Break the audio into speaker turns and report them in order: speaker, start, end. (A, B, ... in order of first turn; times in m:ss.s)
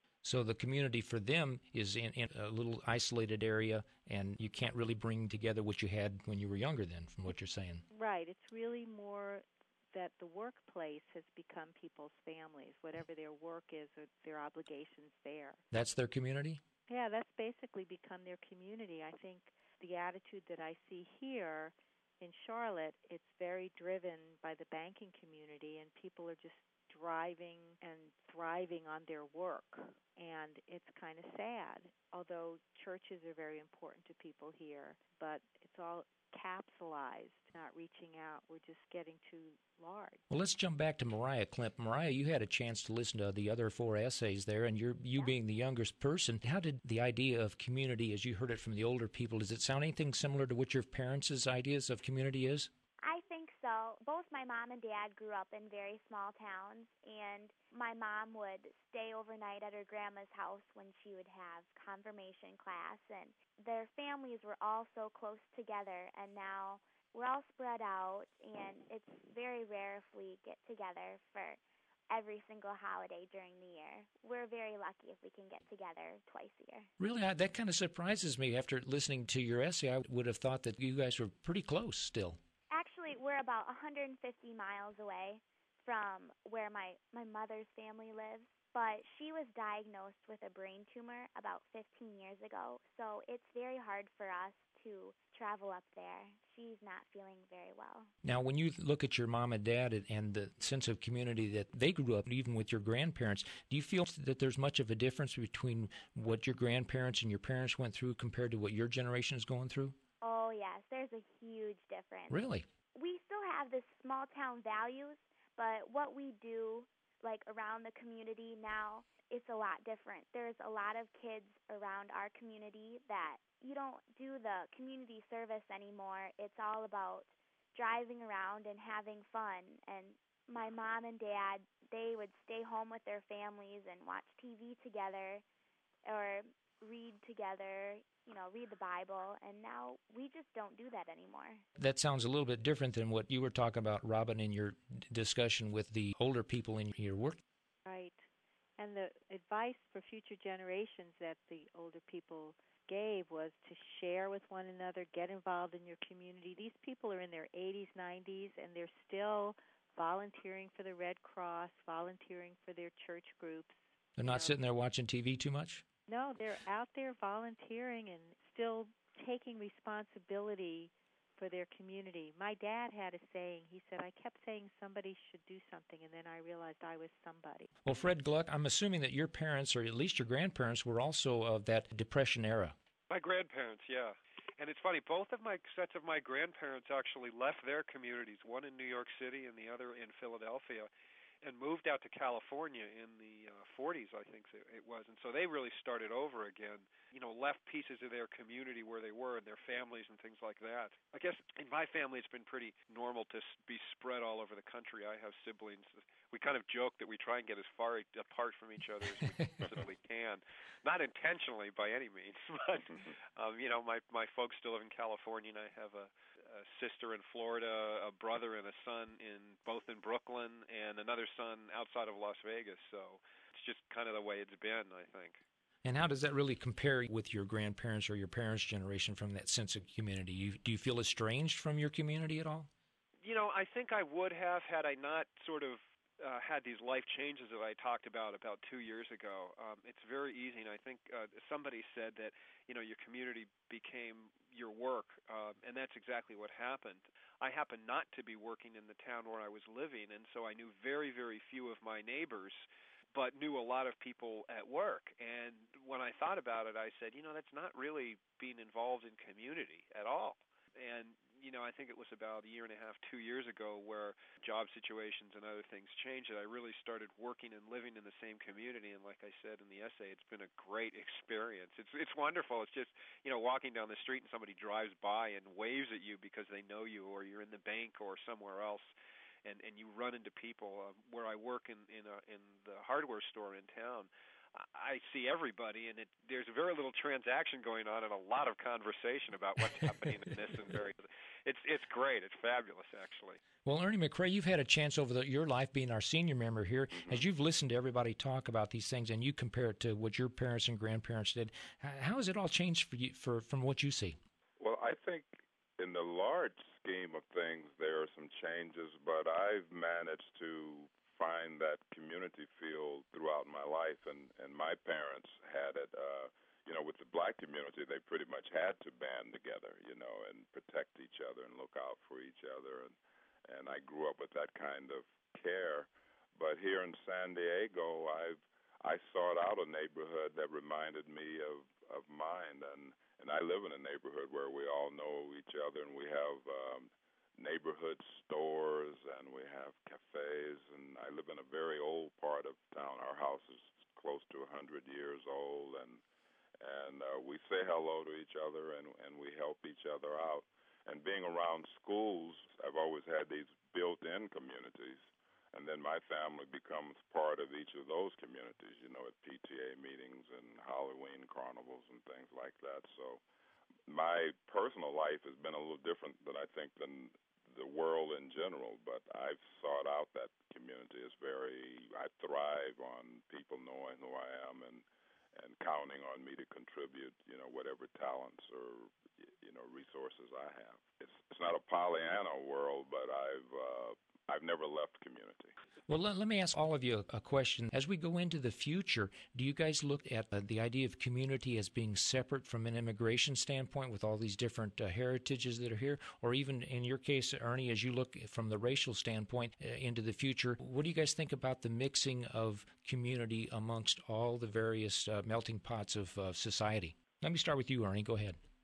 0:00.2-0:07.8 A
0:07.9-0:15.6 B
0:15.7-0:16.6 A
0:16.9-0:40.2 B
0:40.3-0:52.7 A
0:53.0-1:11.6 C
1:12.1-1:16.9 C
1:17.0-1:22.4 A
1:22.7-1:38.1 C
1:38.2-1:50.0 A
1:50.2-1:52.4 C
1:52.3-1:52.6 A
1:52.9-2:15.4 C
2:16.0-2:21.6 C
2:21.8-2:27.4 A
2:27.8-2:28.2 B
2:28.8-2:44.6 B
2:44.2-2:45.8 A
2:46.1-2:57.7 B
2:57.8-3:02.7 A
3:03.1-3:10.9 D
3:11.4-3:45.4 D
3:29.2-3:29.5 A
3:45.8-3:52.7 A
3:53.2-4:38.9 D
4:39.4-4:53.4 D
4:53.6-5:04.2 A
4:56.9-4:57.2 E
5:04.6-5:23.0 E
5:23.5-5:46.0 E
5:46.6-5:55.0 E
5:55.5-6:03.2 E
6:03.9-6:25.5 E
6:25.9-6:48.4 A